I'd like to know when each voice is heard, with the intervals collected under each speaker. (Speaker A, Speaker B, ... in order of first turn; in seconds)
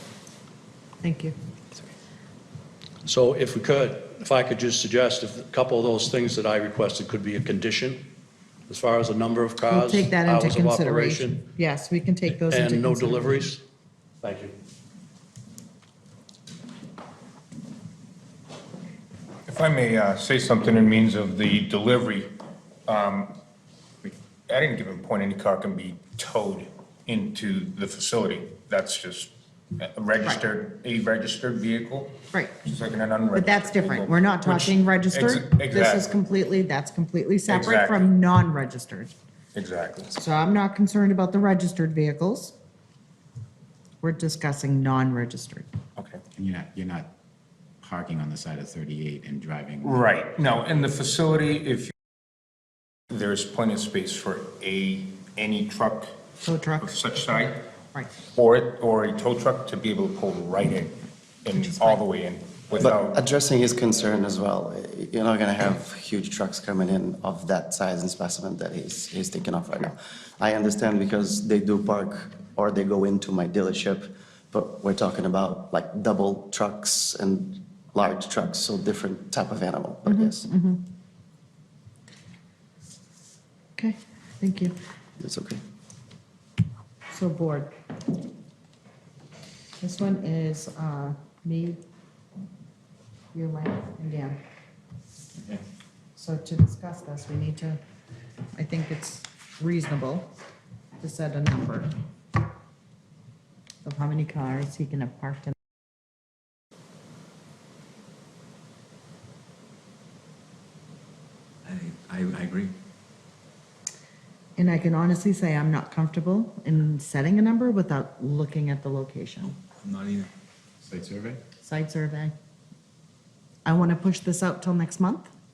Speaker A: 1.0-1.4, 9.7-13.5, 32.3-32.7, 33.3-39.1, 40.1-42.5, 44.0-45.7, 56.4-58.2, 61.5-62.0, 80.1-80.9, 83.8-84.7, 87.1-87.7, 89.8-91.8, 93.3-94.4, 96.2-97.8, 98.5-100.3, 101.0-101.9, 103.8-105.5, 114.6-119.5, 121.6-122.3, 123.7-125.3
Speaker B: 3.0-8.1, 8.7-11.5, 12.3-13.6, 14.2-14.6
Speaker C: 19.5-22.3, 22.9-23.3, 24.0-36.1, 37.5-38.1, 39.5-40.1, 49.8-51.9, 53.1-56.2, 56.8-57.6, 58.2-63.2
Speaker D: 46.4-47.1, 47.8-50.0, 120.8-121.4
Speaker E: 62.8-80.5, 85.2-85.6
Speaker F: 111.7-112.8, 119.5-120.3